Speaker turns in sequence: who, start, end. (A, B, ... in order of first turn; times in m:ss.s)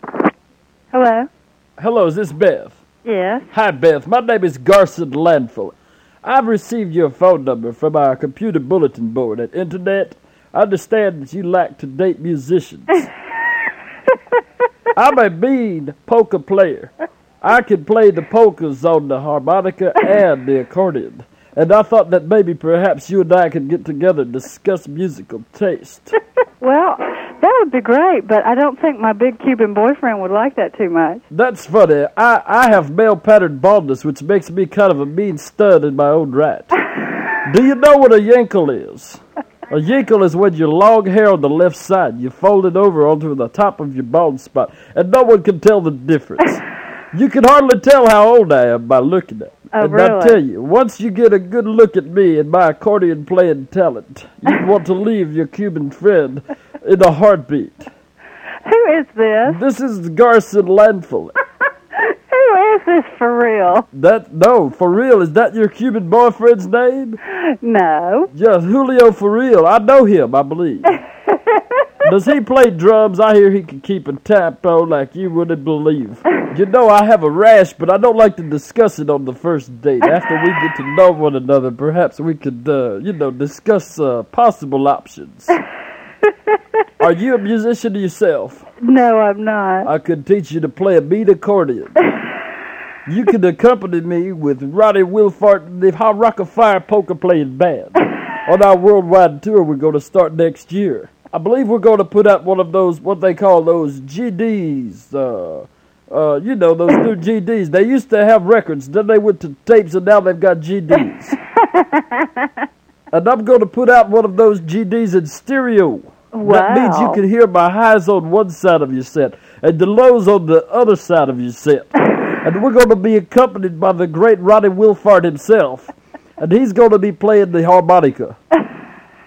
0:00.9-0:01.3 A
0:01.8-0:02.8 B
0:03.0-0:03.5 A
0:03.5-0:13.1 B
0:15.0-0:26.2 B
0:26.6-0:31.2 A
0:31.3-0:36.8 B
0:37.4-0:57.9 B
0:49.7-0:50.4 A
0:58.6-0:59.6 A
0:59.5-1:01.3 B
1:02.0-1:03.9 A
1:03.9-1:07.2 B
1:07.6-1:08.3 A
1:08.3-1:11.0 B
1:11.3-1:11.9 A
1:12.0-1:25.6 B
1:27.0-1:28.7 B
1:28.8-1:29.9 A
1:29.8-1:32.0 B
1:33.1-1:51.4 B
1:51.6-1:52.5 A
1:53.1-2:08.4 B
1:56.3-1:57.2 A